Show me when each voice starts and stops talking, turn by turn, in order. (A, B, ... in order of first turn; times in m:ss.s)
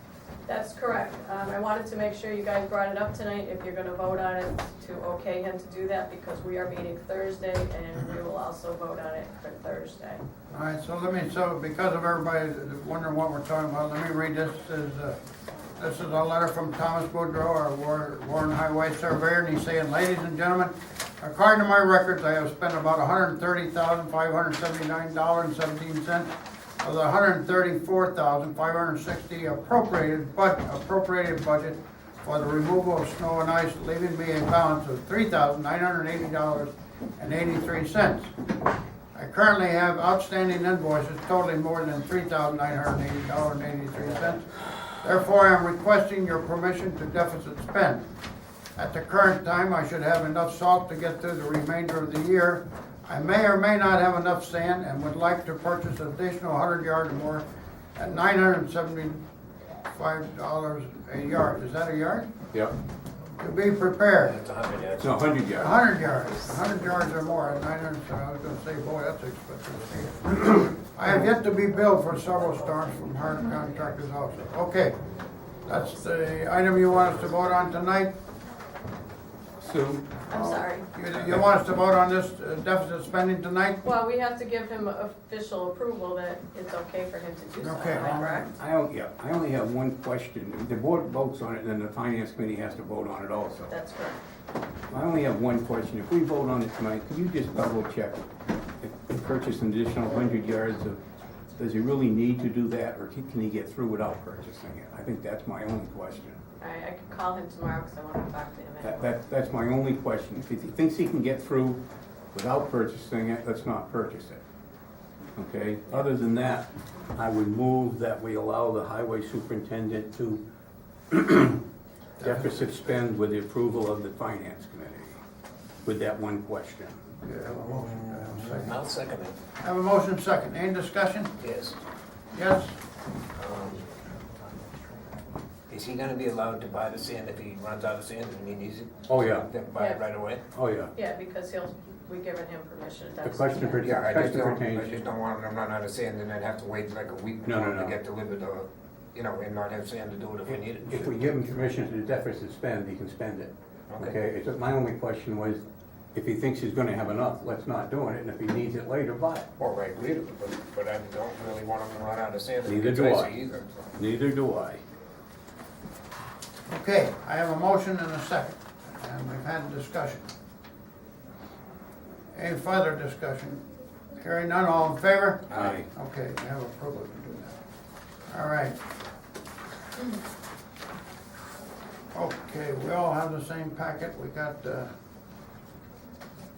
0:00.4-0:10.2 A
0:10.5-0:15.2 B
0:15.8-0:38.3 B
0:39.1-0:44.5 B
0:45.0-0:48.1 B
0:48.8-0:57.4 B
0:58.0-0:59.2 B
0:59.9-1:02.3 B
1:03.4-1:04.4 B
1:04.2-1:05.4 C
1:05.0-1:05.7 D
1:05.5-1:15.0 B
1:15.6-1:18.1 B
1:19.6-1:20.1 D
1:20.3-1:20.9 A
1:20.3-1:23.8 B
1:21.2-1:21.4 D
1:23.8-1:28.5 A
1:27.6-1:28.4 B
1:28.4-1:33.7 D
1:33.7-1:34.2 A
1:34.9-1:38.2 D
1:38.8-1:41.0 D
1:41.6-1:46.4 D
1:46.6-1:49.1 A
1:48.8-1:51.8 D
1:52.3-1:54.4 D
1:55.4-2:00.4 D
2:01.1-2:01.6 D
2:02.2-2:02.6 B
2:02.2-2:05.2 D
2:05.8-2:07.0 D
2:07.2-2:08.8 B
2:07.6-2:09.4 C
2:09.6-2:11.3 B
2:11.4-2:11.8 C
2:12.3-2:12.8 B
2:13.4-2:13.9 C
2:15.7-2:20.4 C
2:19.1-2:19.5 D
2:19.8-2:20.0 A
2:20.5-2:20.9 D
2:20.9-2:23.9 A
2:23.2-2:25.0 D
2:23.8-2:31.5 C
2:27.4-2:28.0 D
2:30.5-2:35.6 D
2:33.9-2:34.2 C
2:36.1-2:39.5 D
2:39.6-2:43.7 C
2:42.6-2:43.3 D
2:44.0-2:44.8 D
2:46.7-2:50.3 B
2:52.3-2:53.6 B
2:54.2-2:57.6 B
2:55.6-2:55.9 D
2:58.3-2:58.8 B
3:02.1-3:04.9 B